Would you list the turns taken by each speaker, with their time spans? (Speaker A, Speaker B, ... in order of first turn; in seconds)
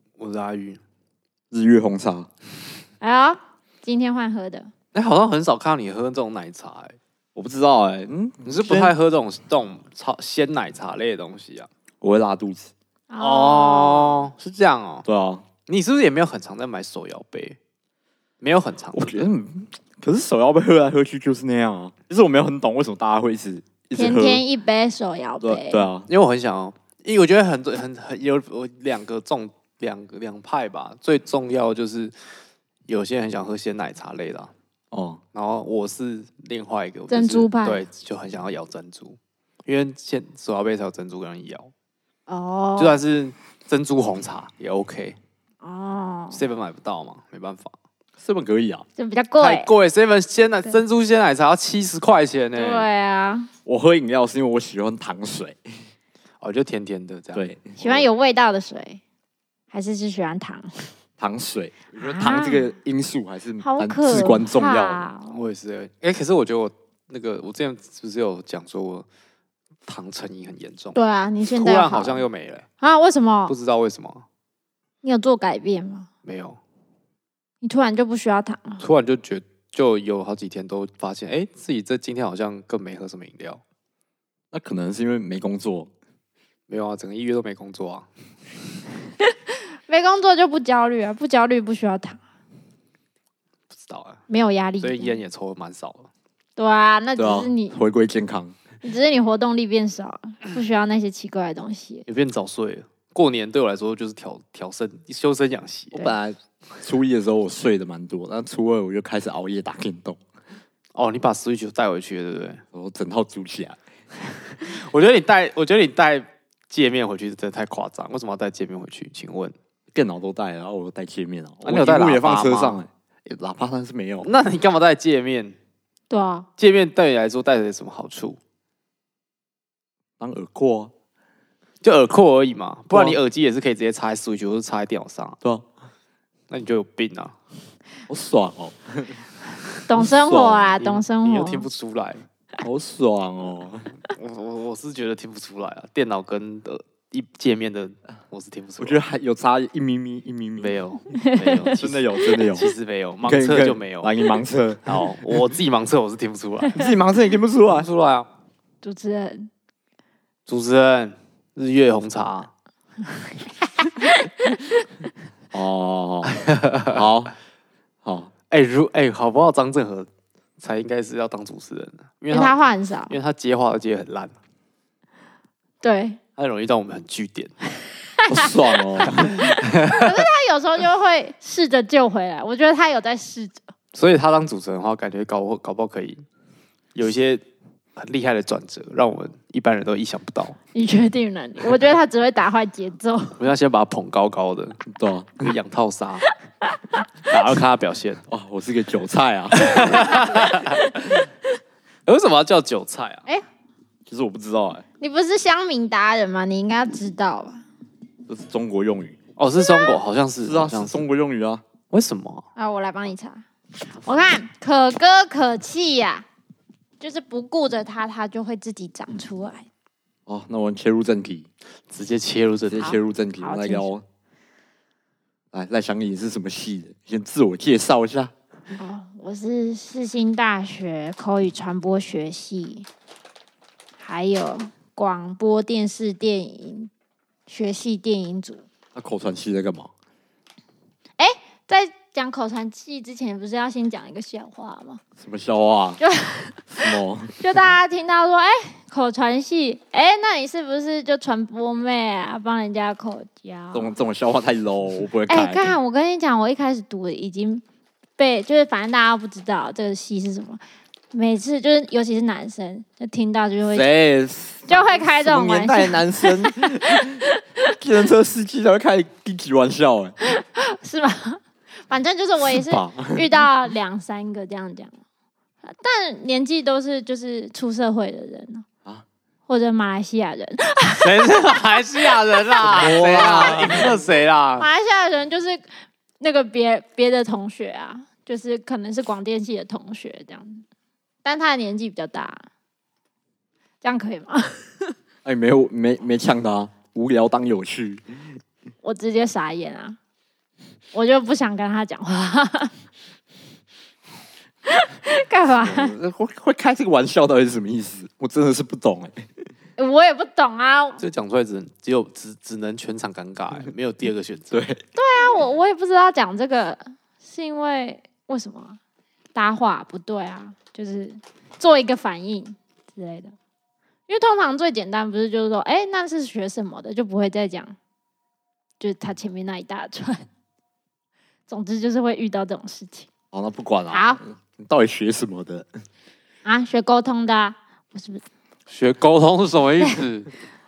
Speaker A: 0.2-0.8, 4.9-7.0, 8.4-11.7, 13.2-15.1, 15.7-17.6, 18.4-19.1, 26.1-32.1, 32.9-34.5, 35.3-41.7, 42.8-45.2, 46.3-47.7, 49.4-52.9, 56.4-58.0, 65.3-69.1, 69.9-71.0, 71.5-72.7, 73.5-74.2, 76.2-76.6, 78.8-83.6, 86.7-88.1, 93.7-94.2, 94.8-96.1, 102.1-106.1, 110.9-112.6, 114.5-119.5, 121.6-122.8, 124.2-125.6, 126.6-128.4, 131.8-135.4, 136.5-137.3, 140.8-142.2, 144.1-149.0, 150.6-154.1, 154.8-156.9, 157.7-158.3, 160.5-162.5, 166.3-167.0, 168.5-170.1, 170.6-172.6, 173.1-174.3, 176.4-177.5, 179.2-180.2, 183.9-186.2, 186.9-187.4, 187.9-190.6, 193.4-194.8, 195.4-196.3, 197.3-198.2, 199.6-200.8, 202.1-203.2, 209.4-211.0, 211.9-212.4, 221.9-223.0, 281.0-284.7, 311.0-314.7, 338.7-340.3
Speaker B: 1.5-2.3, 7.3-8.9, 12.0-12.7, 15.0-15.4, 18.9-24.4, 25.4-26.1, 34.9-35.2, 48.2-48.9, 53.6-55.6, 57.3-57.8, 61.2-65.1, 84.5-85.9, 97.2-98.6, 105.9-110.2, 112.7-113.8, 119.9-124.3, 130.2-130.9, 132.9-133.2, 138.1-139.2, 139.9-140.8, 142.6-143.9, 148.8-150.8, 151.8-152.7, 153.2-155.4, 156.7-157.9, 165.5-167.3, 168.0-168.3, 178.3-179.4, 194.9-195.5, 198.3-200.1, 204.1-204.8, 208.3-209.2, 210.4-211.6, 220.3-221.5, 222.7-224.0, 225.5-228.3, 238.9-239.9, 245.2-246.0, 246.7-247.3, 253.7-255.7, 263.7-267.2, 267.8-270.1, 272.5-273.2, 282.6-283.9, 295.2-298.0, 305.6-309.3, 314.5-314.8, 333.3-335.7
Speaker C: 3.0-4.7, 13.1-14.3, 23.9-25.9, 37.1-37.8, 42.3-43.0, 45.6-46.4, 49.0-49.7, 52.5-53.5, 57.8-59.0, 59.7-60.9, 62.0-62.7, 63.6-65.5, 70.9-72.2, 72.8-73.5, 75.0-76.1, 77.6-78.8, 89.9-92.2, 94.3-95.2, 96.6-97.8, 98.8-102.0, 126.1-126.5, 139.9-141.7, 151.1-151.7, 158.8-159.5, 163.1-164.8, 172.3-173.2, 175.8-176.2, 178.2-183.6, 190.7-193.4, 196.7-197.1, 200.0-200.3, 205.0-207.6, 209.6-210.0, 212.6-213.4, 213.9-216.3, 217.0-219.7, 222.8-223.9, 228.8-232.9, 234.0-236.9, 237.5-238.6, 241.2-245.0, 246.0-246.8, 247.4-253.9, 255.3-257.6, 258.2-260.6, 261.1-263.9, 264.7-267.7, 270.2-274.9, 275.6-278.6, 279.5-281.1, 283.1-283.8, 284.6-285.6, 286.2-290.6, 291.2-292.4, 293.8-294.9, 298.8-300.0, 300.9-302.7, 304.7-305.9, 309.8-311.0, 314.9-318.8, 319.3-323.3, 324.1-327.8, 328.8-330.2, 331.5-333.1, 333.9-334.2, 336.4-338.2